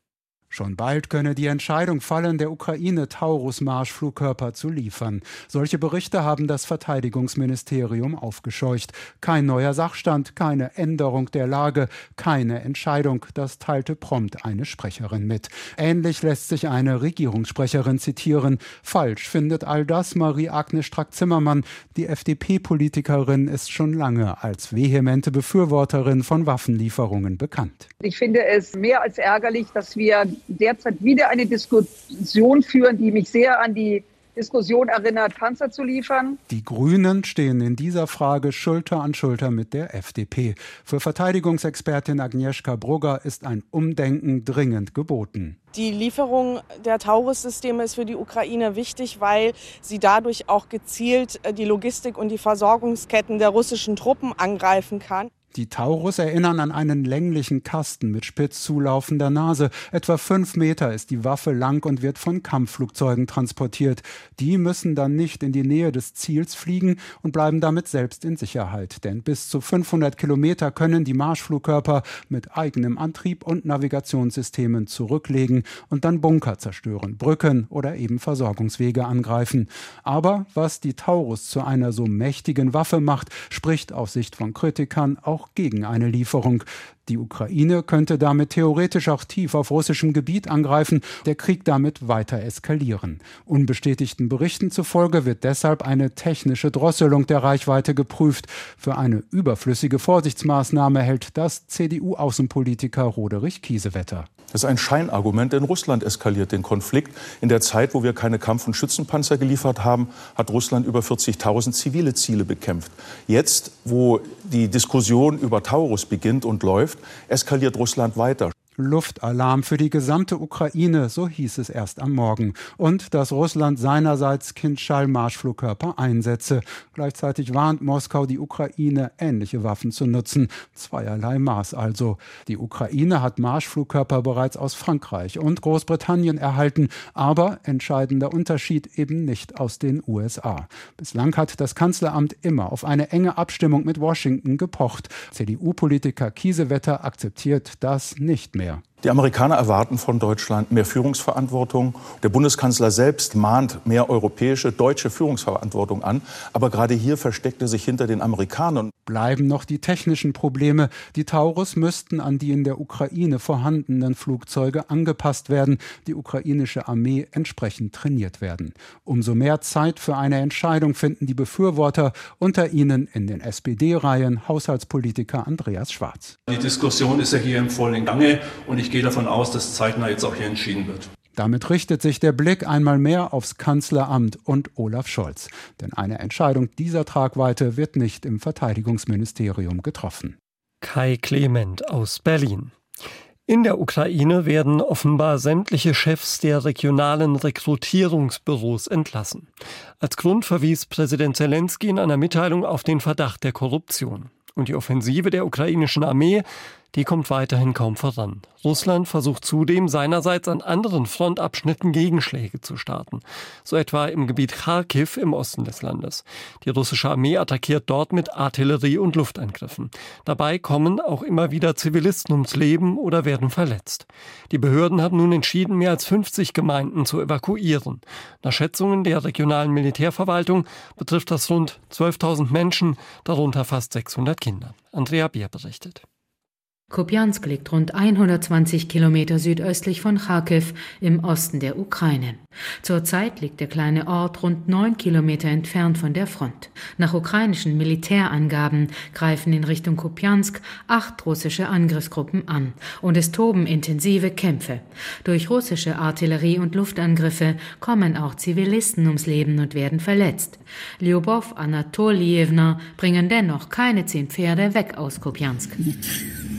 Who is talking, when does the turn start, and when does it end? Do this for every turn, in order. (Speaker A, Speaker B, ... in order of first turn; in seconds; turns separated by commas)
Speaker A: 0.5-27.9, Speaker B: 28.0-36.4, Speaker A: 36.5-45.6, Speaker C: 45.7-55.3, Speaker A: 55.5-104.3, Speaker D: 104.5-118.5, Speaker A: 118.8-148.8, Speaker D: 149.0-158.9, Speaker A: 159.1-176.3, Speaker E: 176.5-181.1, Speaker A: 181.4-190.4, Speaker F: 190.8-192.7, Speaker F: 193.5-199.5, Speaker F: 200.0-236.0, Speaker G: 236.9-265.8